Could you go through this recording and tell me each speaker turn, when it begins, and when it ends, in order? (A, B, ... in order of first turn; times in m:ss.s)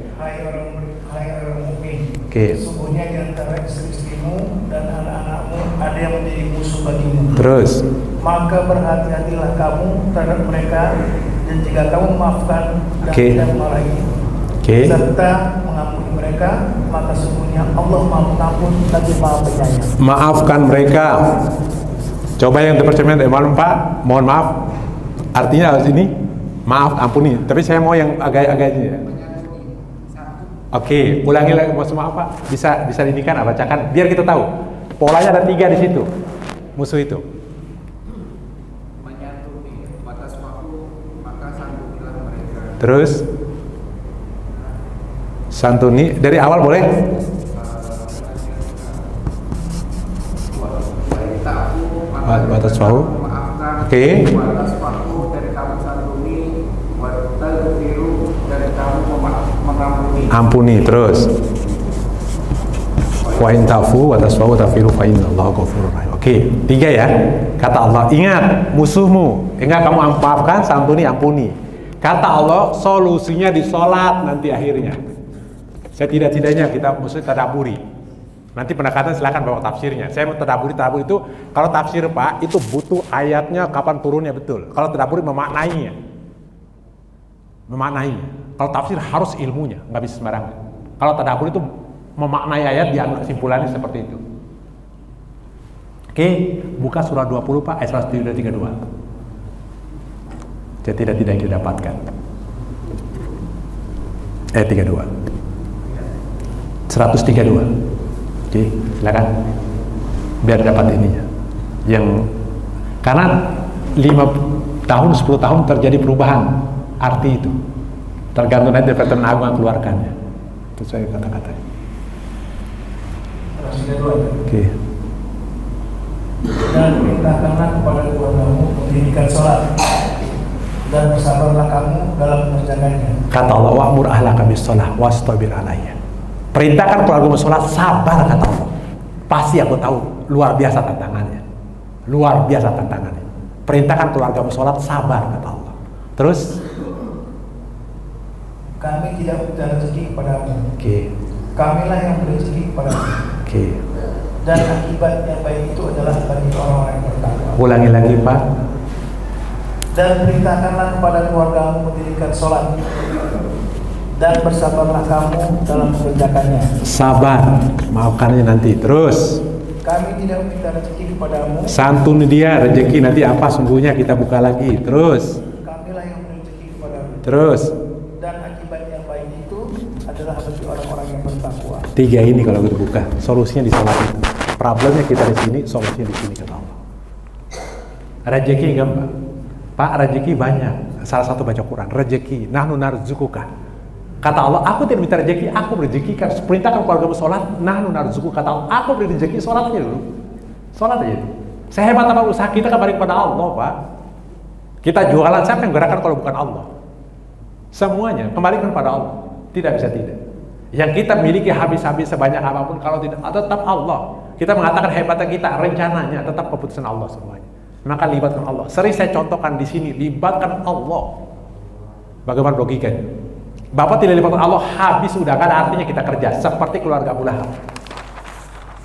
0:00.2-0:07.4 A
0:02.3-0:02.6 B
0:07.4-0:07.8 B
0:08.2-0:10.9 A
0:11.4-0:14.1 A
0:13.0-0:13.4 B
0:14.6-0:15.0 B
0:14.8-0:19.9 A
0:20.0-0:21.3 B
0:22.4-0:24.6 B
0:25.3-0:26.1 B
0:26.6-0:29.0 B
0:28.9-0:30.6 C
0:30.7-0:36.1 B
0:36.8-0:37.2 B
0:39.0-0:42.8 C
0:42.8-0:43.2 B
0:45.5-0:46.9 B
0:47.5-0:49.1 C
0:50.5-1:00.4 C
0:52.2-0:53.1 B
0:53.8-0:54.3 B
1:00.3-1:01.3 B
1:03.3-1:15.0 B
1:15.9-1:17.8 B
1:18.6-1:25.9 B
1:27.7-1:31.6 B
1:32.2-1:34.2 B
1:36.1-1:38.8 B
1:40.8-1:42.0 B
1:44.5-1:45.1 B
1:46.9-1:47.7 B
1:48.5-1:49.3 B
1:50.4-1:51.2 B
1:51.9-1:52.2 B
1:53.0-1:57.5 B
1:58.3-2:00.1 B
2:00.8-2:01.6 B
2:03.6-2:04.4 A
2:04.5-2:04.7 B
2:06.6-2:09.9 A
2:10.9-2:13.2 A
2:13.3-2:16.0 B
2:16.5-2:18.7 B
2:19.3-2:21.4 B
2:22.1-2:26.6 B
2:28.8-2:30.6 A
2:30.8-2:31.1 B
2:31.6-2:33.1 A
2:33.4-2:33.8 B
2:34.4-2:37.6 A
2:37.6-2:38.4 B
2:39.9-2:43.0 A
2:44.2-2:46.7 A
2:46.8-2:49.4 B
2:49.8-2:51.7 A
2:51.7-2:55.4 B
2:55.6-2:57.2 A
2:57.2-2:57.7 B
2:58.2-3:01.9 A
3:02.0-3:06.8 B
3:08.2-3:09.1 B
3:09.8-3:13.5 B
3:14.2-3:20.0 B
3:20.7-3:23.7 B
3:24.8-3:26.7 B
3:27.7-3:30.2 B
3:30.7-3:41.1 B
3:42.3-3:43.0 B
3:43.7-3:47.5 B